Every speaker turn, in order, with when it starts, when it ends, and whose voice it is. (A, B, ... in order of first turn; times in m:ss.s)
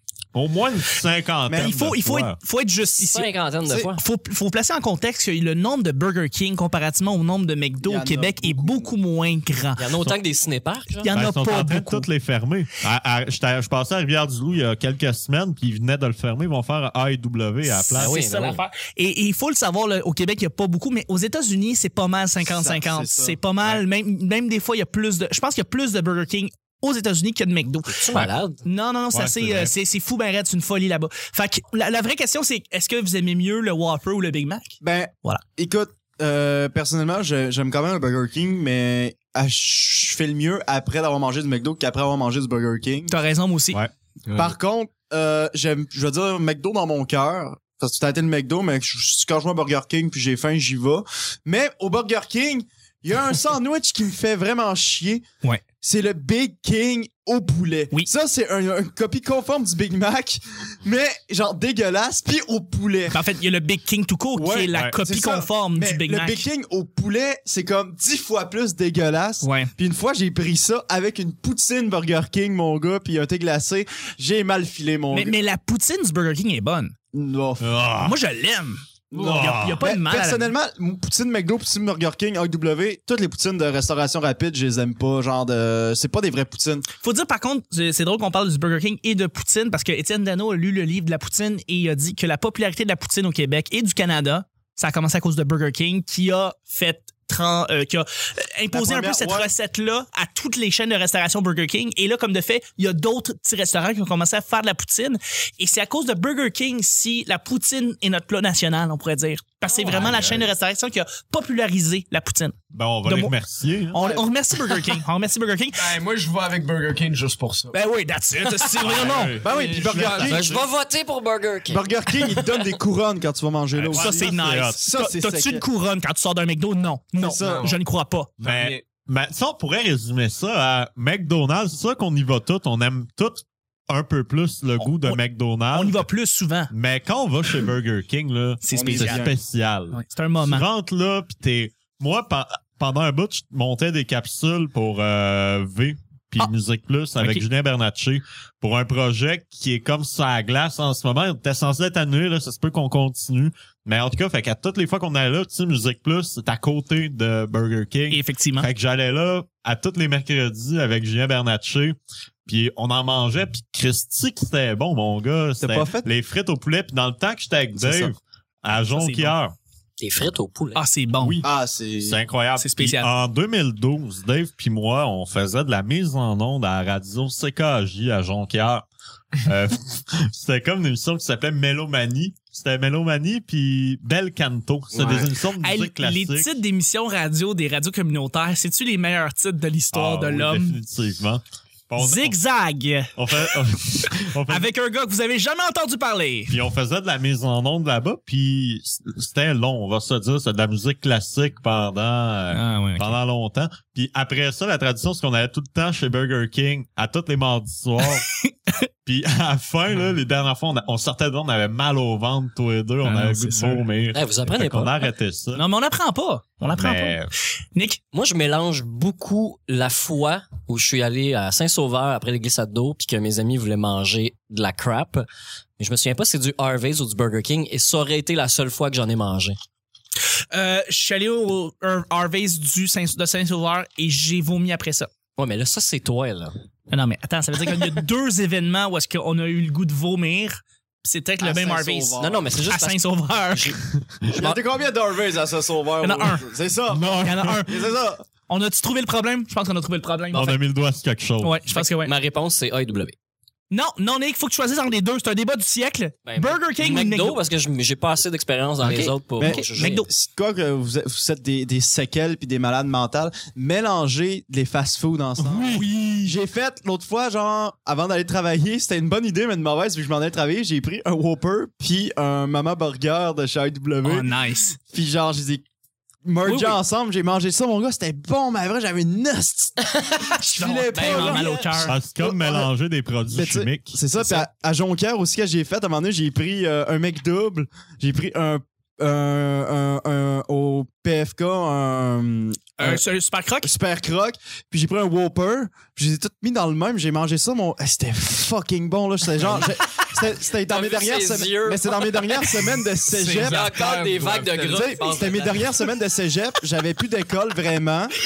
0:00.3-0:02.4 A
0:01.4-0:01.8 B
0:01.5-0:09.9 C
0:03.0-0:04.0 D
0:07.8-0:08.9 B
0:09.8-0:11.1 D
0:11.0-0:12.1 C
0:11.1-0:18.2 A
0:17.6-0:35.4 C
0:17.9-0:18.6 D
0:22.4-0:23.4 B
0:27.9-0:28.6 D
0:29.1-0:29.7 A
0:34.8-0:43.1 B
0:43.1-0:43.8 C
0:44.3-0:55.2 B
0:55.8-1:03.2 B
1:03.1-1:06.4 C
1:04.3-1:15.4 B
1:09.4-1:09.7 C
1:15.1-1:16.9 C
1:17.1-1:17.8 B
1:17.6-1:18.2 A
1:18.0-1:18.8 C
1:19.1-1:26.8 B
1:19.2-1:19.8 A
1:19.3-1:20.5 C
1:27.0-1:53.4 C
1:38.7-1:39.5 B
1:49.7-1:50.5 A
1:52.7-1:54.0 A
1:53.9-1:55.9 C
1:53.9-1:54.3 B
1:55.7-1:57.8 E
1:57.7-1:59.4 C
1:58.8-2:00.6 A
1:59.3-2:00.6 B
1:59.4-2:00.3 E
2:00.2-2:02.5 D
2:01.7-2:05.6 B
2:03.7-2:04.8 A
2:03.9-2:08.3 C
2:07.2-2:07.7 B
2:07.4-2:07.8 E
2:08.4-2:16.0 A
2:08.4-2:08.8 E
2:14.8-2:15.2 C
2:15.7-2:16.7 C
2:16.7-2:49.5 A
2:18.6-2:19.3 C
2:18.7-2:19.4 B
2:19.9-2:20.7 C
2:27.2-2:27.4 C
2:38.1-2:38.7 C
2:45.6-2:46.1 B
2:48.8-2:49.4 C
2:50.0-2:50.8 D
2:50.7-2:51.4 C
2:51.2-2:51.5 A
2:51.4-2:52.2 B
2:52.0-2:58.8 A
2:52.6-2:53.1 C
2:59.4-3:06.5 A
3:04.9-3:05.3 E
3:05.6-3:10.8 C
3:09.9-3:12.4 A
3:12.0-3:16.6 C
3:13.2-3:14.7 A
3:16.5-3:28.2 A
3:22.5-3:23.2 C
3:28.0-3:28.7 C
3:29.0-3:35.6 A
3:33.0-3:33.8 C
3:34.1-3:35.0 D
3:35.5-3:37.2 C
3:36.7-3:37.3 A
3:38.1-3:45.2 D
3:45.8-3:49.6 D
3:50.5-3:55.1 C
3:55.4-3:56.5 D
3:56.9-4:03.8 C
4:01.4-4:02.5 B
4:02.2-4:04.6 D
4:04.3-4:08.2 B
4:06.0-4:06.4 C
4:06.9-4:07.6 A
4:07.2-4:07.8 C
4:08.5-4:10.6 C
4:10.3-4:11.6 A
4:11.4-4:12.1 C
4:11.7-4:13.1 D
4:13.7-4:17.4 C
4:16.3-4:20.0 D
4:18.9-4:20.1 C
4:19.4-4:34.3 B
4:25.4-4:26.3 A
4:34.0-4:34.8 C
4:34.9-4:35.6 B
4:36.2-4:39.8 B
4:36.4-4:36.8 C
4:40.3-4:42.7 B
4:40.4-4:42.0 C
4:40.9-4:41.7 D
4:41.8-4:44.0 A
4:43.3-4:53.0 B
4:52.8-4:53.7 C
4:53.6-5:03.7 B
5:00.5-5:02.7 D
5:03.1-5:05.0 E
5:03.3-5:05.8 D
5:04.7-5:08.1 B